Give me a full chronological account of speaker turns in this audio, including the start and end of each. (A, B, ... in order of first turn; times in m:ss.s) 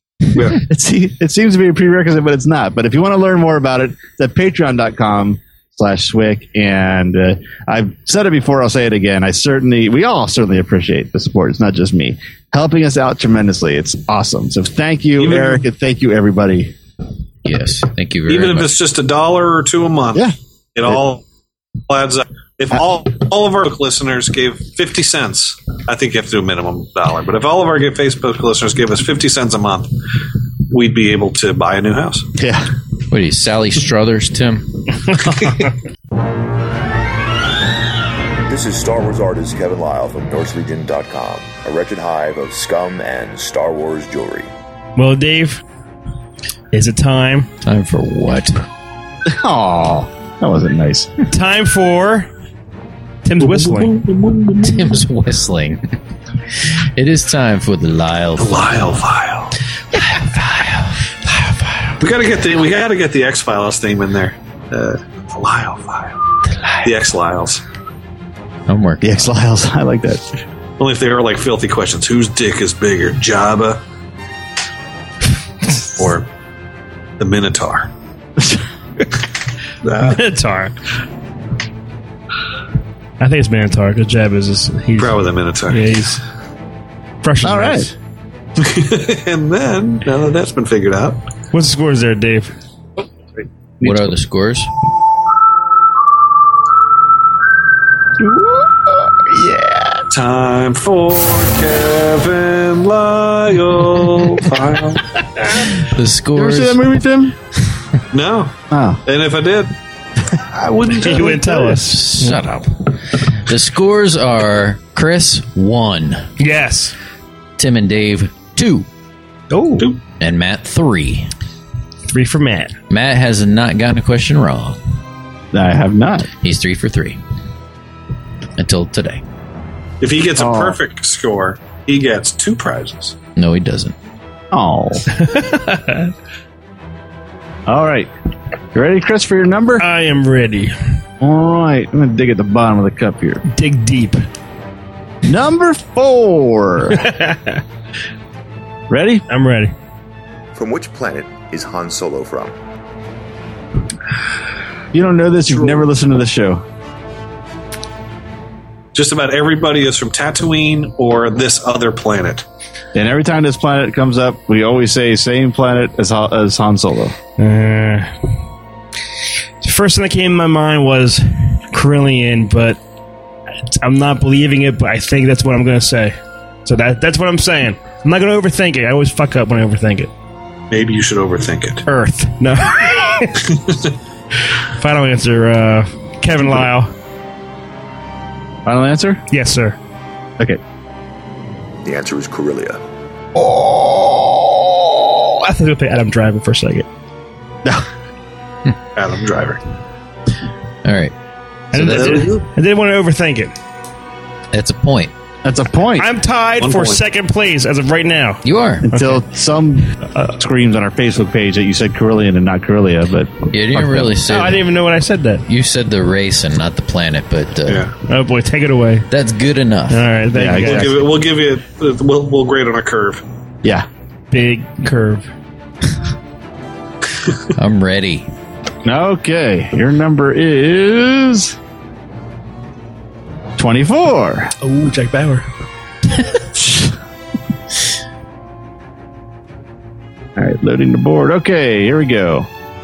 0:00.3-0:00.6 A
0:00.5-0:16.7 B
0:15.2-0:15.7 A
0:17.4-0:18.7 C
0:18.3-0:21.2 A
0:21.9-0:30.0 A
0:30.7-0:32.3 A
0:32.4-0:32.7 B
0:33.1-0:35.2 C
0:38.5-0:44.5 D
0:45.0-0:45.6 E
0:46.7-0:47.5 E
0:47.6-0:48.6 C
0:49.3-0:51.1 B
0:51.3-0:52.3 E
0:53.2-0:53.9 E
0:53.4-0:55.0 A
0:54.6-0:55.8 C
0:56.6-0:58.5 C
0:58.4-0:59.6 A
1:00.2-1:00.6 C
1:02.0-1:06.2 A
1:06.8-1:07.6 A
1:08.7-1:09.3 C
1:09.0-1:10.2 B
1:10.8-1:13.8 A
1:16.0-1:16.3 A
1:17.2-1:17.9 A
1:19.8-1:20.2 A
1:20.0-1:20.8 E
1:23.2-1:26.2 E
1:25.0-1:26.0 A
1:27.2-1:27.9 E
1:27.4-1:27.9 B
1:28.6-1:31.2 A
1:31.5-1:32.5 E
1:33.8-1:34.1 B
1:33.8-1:34.7 C
1:38.2-1:40.0 B
1:40.1-1:45.1 A
1:45.8-1:46.8 C
1:46.3-1:47.4 B
1:48.1-1:49.7 A
1:48.7-1:49.0 B
1:50.5-1:51.8 A
1:51.0-1:52.3 E
1:51.8-1:56.3 C
1:56.4-1:57.0 E
1:57.6-1:58.9 C
1:59.5-1:59.9 E
2:00.2-2:01.3 C
2:02.1-2:02.8 E
2:02.9-2:04.8 C
2:05.5-2:06.3 B
2:06.3-2:07.2 C
2:08.6-2:09.2 C
2:10.0-2:13.2 A
2:10.4-2:10.8 B
2:13.4-2:13.9 C
2:14.5-2:15.1 B
2:15.1-2:16.1 E
2:17.7-2:18.1 B
2:18.7-2:19.8 B
2:19.8-2:20.8 E
2:21.2-2:23.4 B
2:23.5-2:24.2 E
2:25.2-2:27.0 B
2:26.9-2:27.6 E
2:28.9-2:29.2 B
2:29.3-2:29.7 E
2:30.6-2:32.6 D
2:34.9-2:36.6 B
2:35.5-2:35.9 A
2:38.9-2:42.4 A
2:43.0-2:47.2 B
2:47.4-2:48.1 E
2:49.6-2:52.8 E
2:53.7-3:00.1 E
3:00.7-3:01.8 A
3:01.9-3:03.5 E
3:03.5-3:03.9 A
3:04.8-3:06.9 E
3:08.7-3:09.2 B
3:09.3-3:09.8 E
3:11.8-3:12.8 D
3:13.4-3:15.0 B
3:15.4-3:16.9 E
3:19.0-3:19.6 A
3:20.8-3:21.1 C
3:21.7-3:23.6 E
3:21.7-3:22.4 C
3:21.9-3:22.5 A
3:24.5-3:25.1 C
3:25.4-3:26.1 B
3:26.0-3:29.2 E
3:26.6-3:27.0 A
3:28.4-3:28.9 C
3:28.8-3:34.2 B
3:33.5-3:34.7 C
3:34.3-3:35.4 E
3:35.5-3:37.9 C
3:37.7-3:37.9 A
3:38.1-3:39.1 E
3:39.1-3:40.0 C
3:39.9-3:41.0 E
3:40.3-3:41.1 B
3:40.6-3:43.2 A
3:44.3-3:45.3 E
3:47.6-3:48.3 C
3:48.8-3:51.6 B
3:53.6-3:54.5 B
3:54.6-3:55.5 E
3:56.5-3:56.9 B
4:00.4-4:02.5 B